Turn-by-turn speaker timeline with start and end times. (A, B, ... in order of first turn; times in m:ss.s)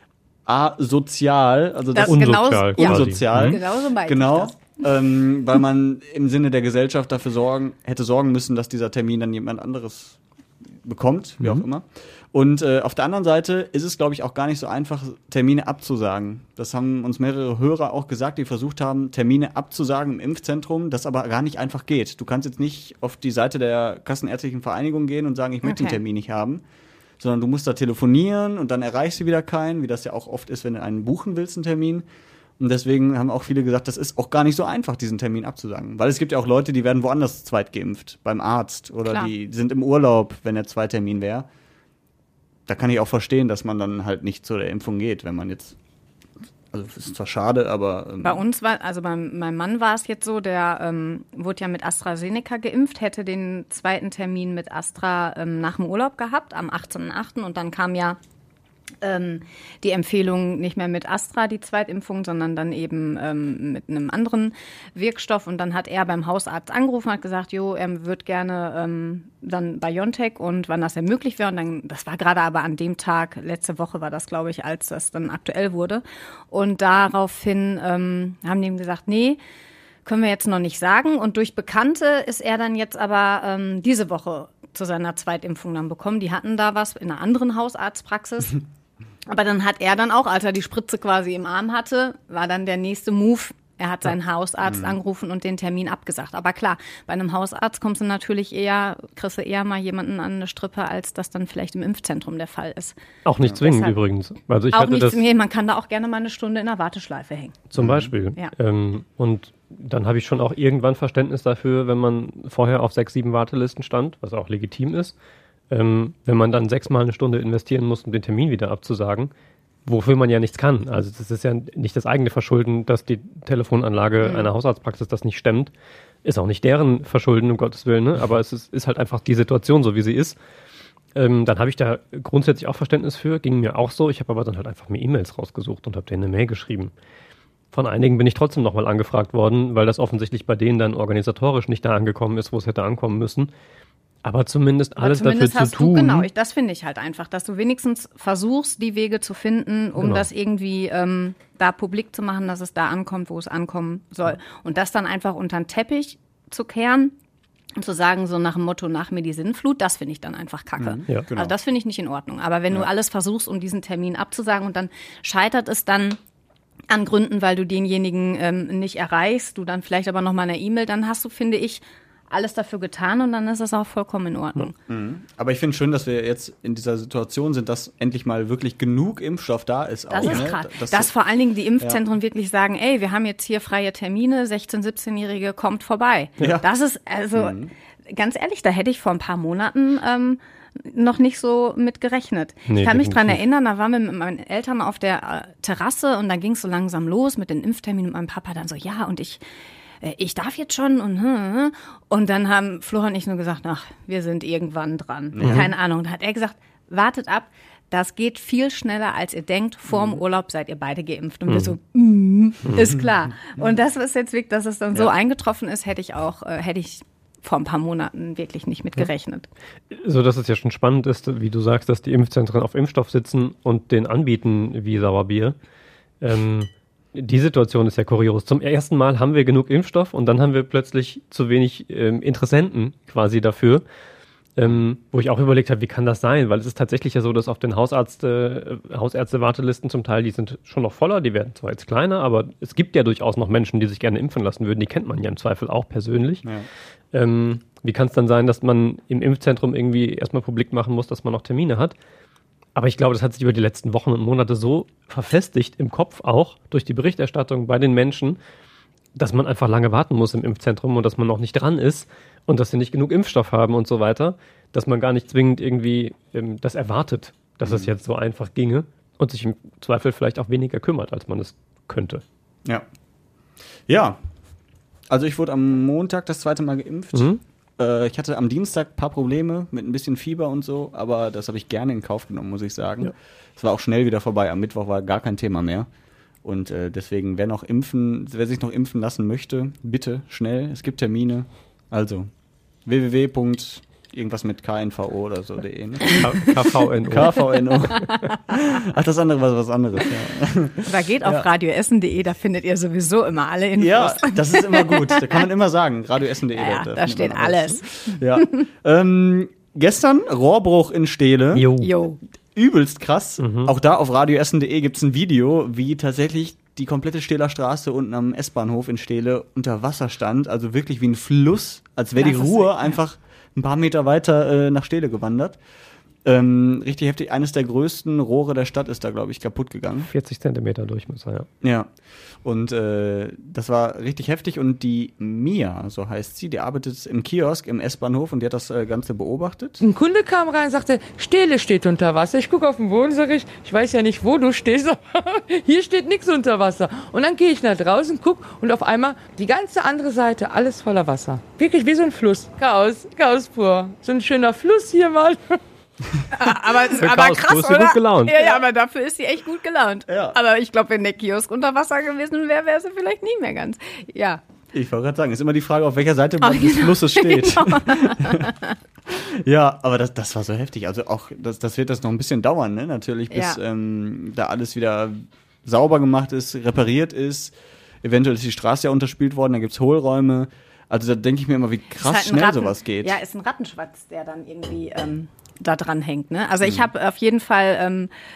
0:00.5-0:10.2 A
0:02.0-0:04.7 B
0:02.0-0:03.6 C
0:10.8-0:26.6 A
0:25.6-0:26.0 B
0:27.2-0:32.0 A
0:32.6-0:41.5 A
0:42.7-0:45.8 A
0:46.7-0:48.4 A
0:48.2-0:58.2 B
0:59.0-1:19.4 B
1:20.0-1:28.6 B
1:29.3-1:43.0 B
1:34.6-1:34.9 A
1:43.2-1:45.2 C
1:43.6-1:44.0 B
1:44.7-1:47.6 B
1:47.7-1:55.1 C
1:47.8-1:48.1 A
1:55.7-1:59.3 C
1:59.9-2:05.7 C
2:04.2-2:04.5 B
2:06.2-2:10.4 C
2:11.1-2:16.9 C
2:17.7-2:23.5 C
2:24.2-2:26.3 C
2:25.0-2:37.1 B
2:30.0-2:30.3 C
2:37.8-2:46.2 B
2:40.8-2:41.5 A
2:46.9-2:54.7 B
2:54.9-3:01.1 A
3:00.1-3:07.6 B
3:07.4-3:07.7 A
3:08.1-3:19.4 B
3:12.7-3:13.4 C
3:20.0-3:39.5 B
3:25.4-3:25.7 A
3:25.4-3:25.7 C
3:29.9-3:30.2 A
3:31.5-3:31.7 C
3:32.6-3:32.9 C
3:39.9-3:45.6 C
3:46.2-3:53.8 C
3:54.6-4:06.4 C
4:07.1-4:11.9 C
4:12.8-4:18.4 C
4:19.2-4:32.2 C
4:27.6-4:27.9 A
4:33.9-4:34.2 A
4:35.1-4:45.9 A
4:37.1-4:37.4 C
4:46.4-4:52.3 A
4:52.9-4:56.5 A
4:56.1-4:57.5 C
4:57.1-5:01.5 A
4:58.0-4:58.2 B
5:00.9-5:05.5 B
5:03.8-5:11.6 A
5:06.5-5:07.8 B
5:11.6-5:11.9 C
5:11.8-5:12.2 B
5:12.6-5:25.6 A
5:13.4-5:13.7 C
5:22.2-5:23.0 B
5:26.2-5:30.1 A
5:30.0-5:31.5 C
5:31.6-5:31.9 A
5:32.4-5:39.8 A
5:39.8-5:55.6 D
5:56.3-6:04.4 B
5:56.9-5:58.4 C
6:00.1-6:00.4 A
6:04.7-6:08.5 A
6:06.4-6:08.8 B
6:09.2-6:23.2 A
6:13.3-6:13.6 B
6:22.0-6:28.1 B
6:26.6-6:26.9 A